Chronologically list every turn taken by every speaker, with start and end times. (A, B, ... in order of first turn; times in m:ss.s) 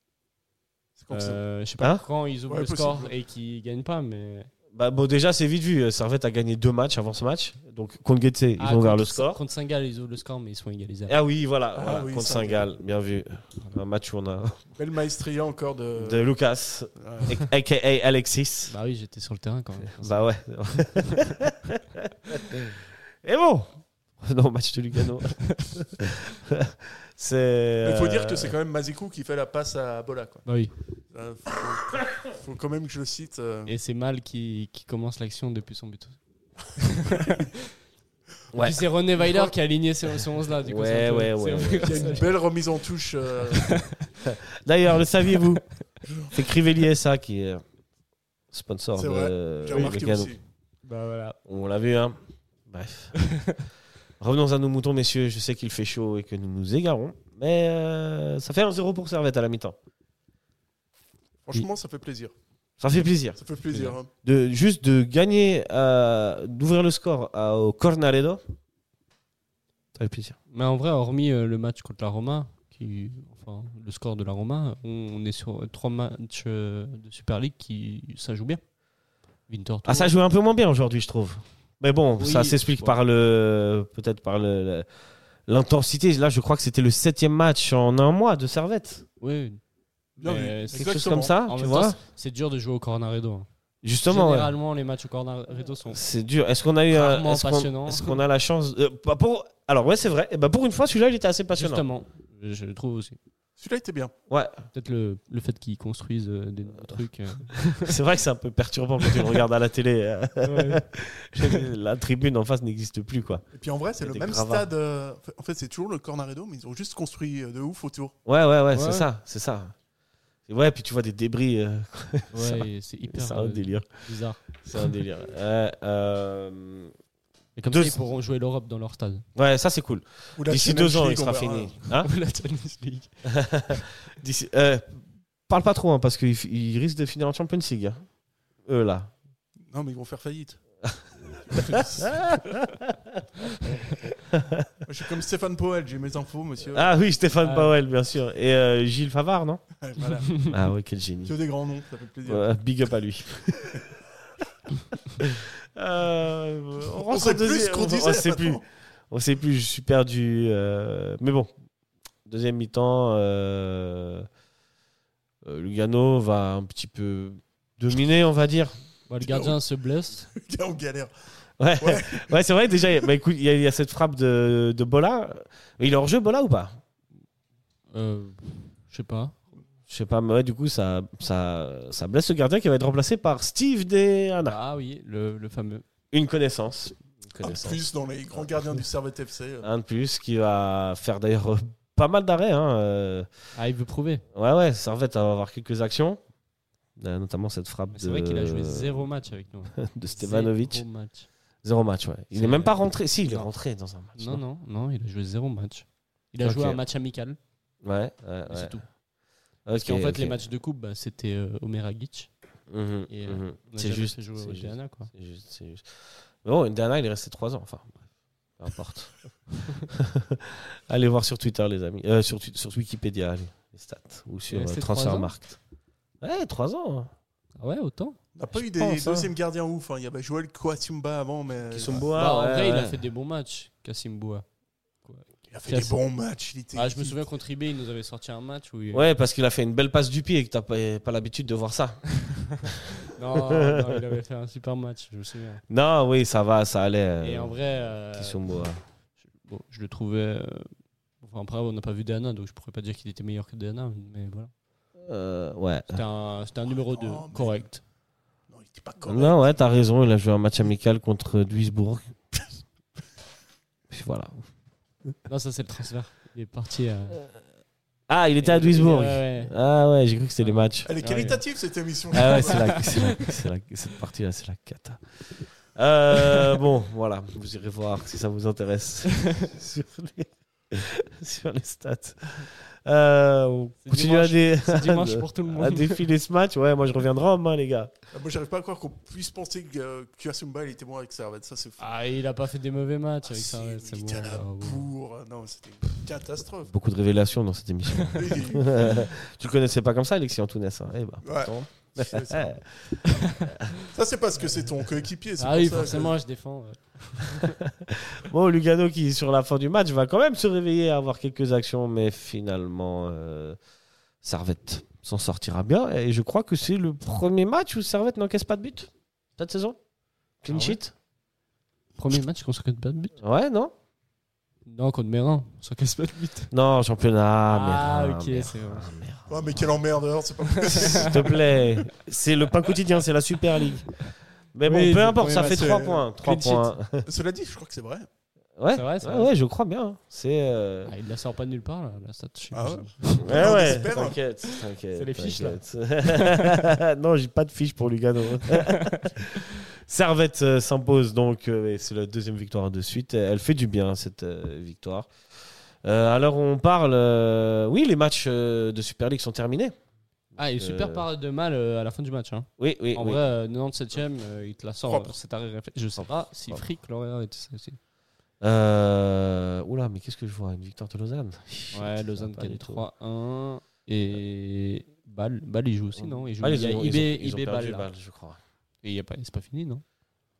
0:01.0-0:01.4 A
0:01.1-0:04.5 B
0:01.8-0:02.0 C
0:02.5-0:03.1 A
0:04.7-0:09.4 C
0:08.6-0:11.1 B
0:11.1-0:14.6 C
0:11.7-0:12.7 A
0:14.8-0:16.3 A
0:16.0-0:18.7 C
0:16.9-0:17.3 A
0:18.7-0:20.3 B
0:19.9-0:21.7 C
0:22.3-0:22.8 B
0:23.2-0:28.5 C
0:27.8-0:30.5 A
0:30.4-0:30.7 B
0:31.1-0:33.7 A
0:33.7-0:37.6 B
0:38.5-0:38.8 C
0:38.6-0:42.4 B
0:39.2-0:39.5 A
0:40.6-0:42.2 C
0:41.8-0:43.8 A
0:43.5-0:44.1 B
0:44.2-0:45.6 C
0:46.0-0:46.4 A
0:46.3-0:47.6 C
0:48.5-0:50.4 C
0:48.9-0:50.4 A
0:50.8-0:51.4 B
0:51.4-0:52.2 C
0:52.7-0:53.1 C
0:53.1-0:53.6 B
0:54.2-0:59.8 C
1:01.4-1:02.3 A
1:02.8-1:03.4 C
1:03.3-1:04.1 A
1:03.7-1:04.0 B
1:04.2-1:08.4 C
1:09.9-1:10.4 C
1:10.5-1:18.6 B
1:19.5-1:20.1 B
1:19.8-1:24.9 C
1:22.2-1:23.0 B
1:25.5-1:29.0 C
1:29.2-1:29.6 B
1:30.2-1:33.5 B
1:30.2-1:31.3 A
1:30.7-1:32.0 C
1:33.8-1:34.5 C
1:34.0-1:36.0 B
1:35.9-1:41.9 C
1:36.9-1:38.2 B
1:41.5-1:43.2 B
1:43.6-1:44.1 A
1:44.3-1:44.6 C
1:44.7-1:48.0 B
1:47.8-1:53.4 C
1:49.1-1:49.4 B
1:50.4-1:50.8 B
1:51.4-1:51.7 B
1:53.5-1:58.1 A
1:54.0-1:54.7 C
1:58.2-1:59.7 C
1:58.7-1:59.1 B
2:00.5-2:03.9 C
2:02.3-2:04.9 B
2:04.6-2:06.9 C
2:07.6-2:09.2 B
2:07.7-2:08.0 C
2:09.4-2:12.1 C
2:10.4-2:11.8 A
2:11.9-2:13.1 B
2:13.3-2:18.0 C
2:18.6-2:19.1 C
2:19.7-2:20.6 A
2:21.5-2:22.1 A
2:21.5-2:22.9 C
2:23.7-2:24.6 C
2:24.8-2:27.0 A
2:26.7-2:29.6 C
2:27.4-2:27.8 B
2:29.8-2:30.5 A
2:30.5-2:31.3 C
2:31.2-2:32.5 A
2:32.2-2:33.9 C
2:35.2-2:41.5 C
2:37.0-2:38.6 A
2:42.2-2:44.3 C
2:45.4-2:48.7 C
2:49.1-2:50.2 B
2:49.2-2:49.6 A
2:50.2-2:51.1 A
2:51.6-2:56.8 C
2:51.7-2:53.1 A
2:57.9-2:59.3 B
2:59.9-3:04.6 C
3:04.4-3:05.8 B
3:06.1-3:07.8 C
3:07.4-3:09.7 A
3:09.6-3:13.3 C
3:13.6-3:14.2 B
3:14.4-3:16.2 C
3:17.0-3:19.1 C
3:17.9-3:21.3 B
3:19.8-3:20.8 C
3:21.6-3:24.4 C
3:22.3-3:23.5 B
3:24.1-3:27.4 B
3:26.4-3:26.8 C
3:27.8-3:28.8 C
3:28.5-3:28.8 B
3:29.6-3:30.4 C
3:29.7-3:32.3 B
3:32.7-3:35.8 C
3:33.1-3:35.1 B
3:36.4-3:38.0 C
3:38.6-3:39.2 C
3:39.8-3:45.6 C
3:44.5-3:45.4 B
3:46.2-3:47.1 C
3:47.6-3:48.2 B
3:48.4-3:52.1 A
3:48.5-3:49.3 C
3:51.7-3:53.0 C
3:52.1-3:54.4 B
3:55.0-3:56.0 B
3:55.5-3:57.2 A
3:56.7-3:59.0 B
3:58.9-4:02.8 C
4:03.0-4:05.6 B
4:05.7-4:07.6 C
4:07.2-4:08.7 B
4:08.1-4:08.8 C
4:09.4-4:10.7 B
4:11.2-4:14.5 B
4:15.0-4:16.0 C
4:15.9-4:17.8 B
4:16.7-4:17.7 A
4:18.5-4:19.6 A
4:19.1-4:22.4 C
4:23.9-4:24.4 C
4:25.3-4:27.2 B
4:28.1-4:30.9 C
4:28.4-4:29.5 B
4:30.4-4:31.4 B
4:30.8-4:32.9 A
4:32.1-4:47.9 C
4:32.2-4:33.4 B
4:43.8-4:46.1 B
4:48.1-4:51.9 A
4:51.8-4:54.9 B
4:53.3-4:56.7 A
4:56.7-5:03.5 C
4:58.1-4:59.1 A
5:01.2-5:02.7 A
5:03.7-5:06.2 A
5:05.4-5:07.6 B
5:07.6-5:13.6 C
5:14.2-5:19.8 C
5:20.4-5:20.9 C
5:20.5-5:20.8 B
5:22.0-5:23.1 B
5:23.2-5:23.7 C
5:24.7-5:26.5 B
5:26.5-5:29.6 C
5:27.5-5:28.9 B
5:29.3-5:31.2 A
5:30.4-5:31.4 B
5:30.9-5:34.0 C
5:34.5-5:37.1 C
5:34.6-5:36.8 B
5:35.3-5:36.1 A
5:37.0-5:38.1 A
5:38.6-5:40.9 C
5:38.7-5:39.3 B
5:40.9-5:43.6 B
5:42.5-5:44.2 A
5:43.2-5:55.1 C
5:44.8-5:46.5 B
5:48.5-5:48.9 B
5:55.8-5:59.7 C
6:00.4-6:07.8 B
6:00.5-6:01.1 C
6:02.6-6:03.2 C
6:04.8-6:05.1 A
6:06.0-6:06.6 C
6:08.4-6:12.8 C
6:11.7-6:17.9 B
6:16.0-6:18.4 C
6:18.8-6:19.8 B